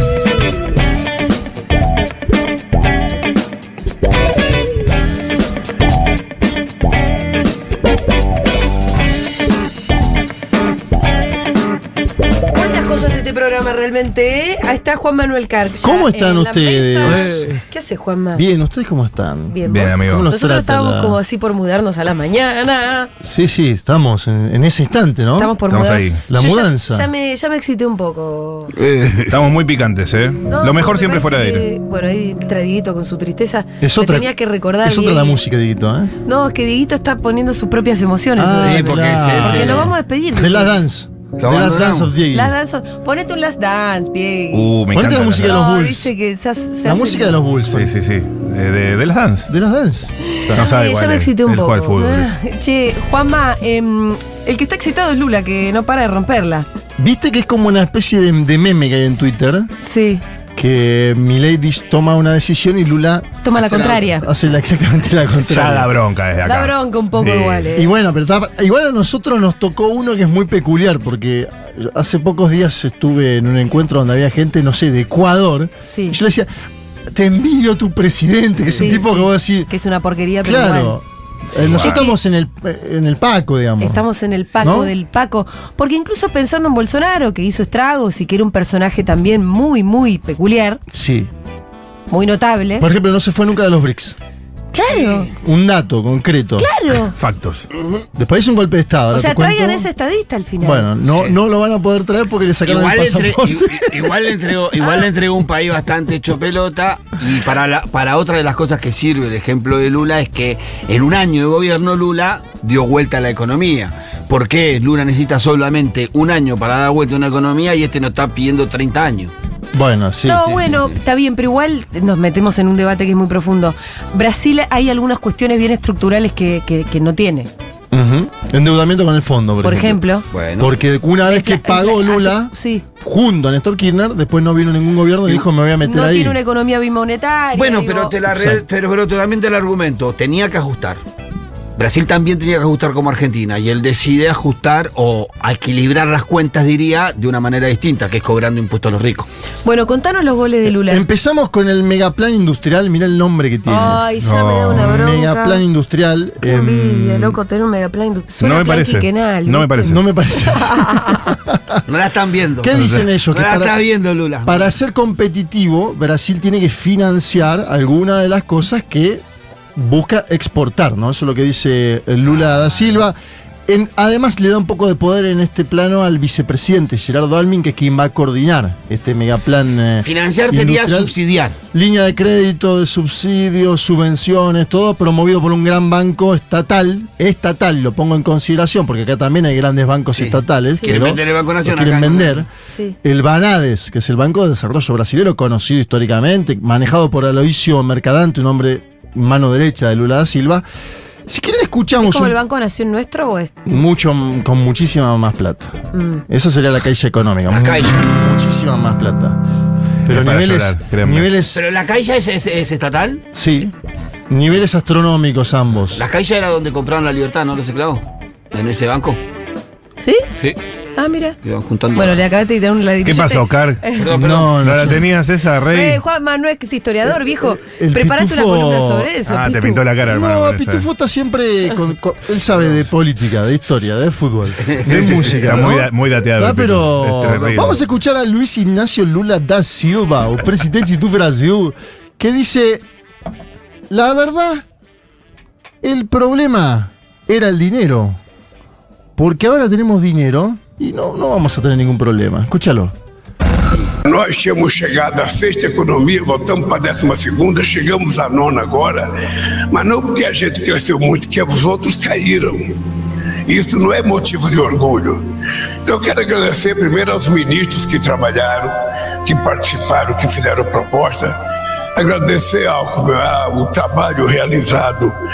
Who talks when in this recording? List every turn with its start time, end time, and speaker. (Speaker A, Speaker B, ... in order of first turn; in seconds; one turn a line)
Speaker A: 12.5-18.4
Speaker B: 15.8-17.5
Speaker B: 18.3-21.2
Speaker A: 19.5-23.1
Speaker C: 19.6-20.3
Speaker B: 23.2-25.5
Speaker A: 25.4-28.7
Speaker C: 25.7-26.2
Speaker B: 26.3-27.1
Speaker D: 28.7-29.4
Speaker C: 29.3-31.7
Speaker A: 30.5-35.4
Speaker B: 33.8-34.3
Speaker B: 34.8-36.1
Speaker A: 36.2-40.7
Speaker B: 38.4-42.5
Speaker D: 38.6-39.9
Speaker D: 41.4-42.1
Speaker A: 42.3-44.7
Speaker C: 44.5-45.6
Speaker B: 44.9-46.1
Speaker A: 45.4-47.3
Speaker B: 46.8-47.9
Speaker C: 47.7-49.5
Speaker B: 49.5-50.6
Speaker C: 50.5-52.3
Speaker A: 50.5-56.6
Speaker B: 57.0-59.7
Speaker A: 59.8-60.2
Speaker B: 60.5-65.9
Speaker A: 63.4-64.3
Speaker C: 65.5-67.7
Speaker A: 66.4-67.9
Speaker B: 67.7-76.5
Speaker A: 75.8-76.2
Speaker B: 77.1-79.7
Speaker A: 78.7-81.0
Speaker B: 80.4-84.0
Speaker A: 81.8-82.2
Speaker A: 83.8-90.8
Speaker B: 84.6-84.9
Speaker B: 90.9-91.3
Speaker A: 92.1-92.9
Speaker B: 92.8-94.2
Speaker B: 94.7-96.7
Speaker A: 94.8-95.2
Speaker D: 94.8-95.2
Speaker A: 96.6-97.1
Speaker C: 97.1-97.7
Speaker D: 97.8-98.0
Speaker B: 98.2-99.9
Speaker A: 99.1-100.9
Speaker B: 100.6-104.4
Speaker D: 101.0-101.4
Speaker D: 102.6-119.3
Speaker B: 119.7-120.6
Speaker A: 120.2-127.5
Speaker D: 120.5-120.9
Speaker B: 127.9-130.0
Speaker A: 129.6-130.2
Speaker D: 130.3-130.8
Speaker B: 130.6-136.4
Speaker A: 131.2-132.8
Speaker A: 135.8-138.1
Speaker D: 137.5-141.0
Speaker B: 138.3-138.6
Speaker D: 141.8-149.3
Speaker A: 149.6-151.0
Speaker B: 150.8-154.1
Speaker A: 153.7-155.6
Speaker C: 154.2-154.9
Speaker B: 154.7-157.4
Speaker A: 156.4-161.4
Speaker C: 158.4-160.0
Speaker B: 159.8-161.8
Speaker D: 161.9-164.7
Speaker B: 162.6-163.8
Speaker C: 162.7-163.1
Speaker B: 164.4-169.2
Speaker B: 169.7-173.2
Speaker B: 173.7-181.1
Speaker D: 180.0-181.6
Speaker B: 181.7-192.5
Speaker D: 190.1-192.4
Speaker A: 190.7-191.0
Speaker A: 192.7-192.9
Speaker B: 193.0-200.6
Speaker B: 201.2-202.3
Speaker A: 202.0-203.6
Speaker B: 203.7-209.4
Speaker A: 205.9-206.2
Speaker D: 207.5-208.0
Speaker B: 210.1-211.6
Speaker C: 210.1-211.3
Speaker D: 211.5-213.2
Speaker B: 213.3-213.7
Speaker B: 214.3-216.0
Speaker D: 215.9-219.2
Speaker A: 221.0-221.4
Speaker D: 221.4-222.2
Speaker A: 221.9-224.1
Speaker C: 223.0-223.9
Speaker D: 224.0-225.0
Speaker B: 224.1-225.1
Speaker C: 224.5-226.0
Speaker A: 225.7-229.8
Speaker B: 227.1-229.1
Speaker C: 229.2-230.8
Speaker B: 230.1-242.8
Speaker D: 234.6-235.8
Speaker C: 234.8-237.8
Speaker B: 243.9-244.7
Speaker B: 245.8-248.2
Speaker B: 249.2-252.9
Speaker E: 254.0-259.1
Speaker E: 259.7-262.8
Speaker E: 263.5-265.2
Speaker E: 265.8-271.3
Speaker E: 271.9-275.1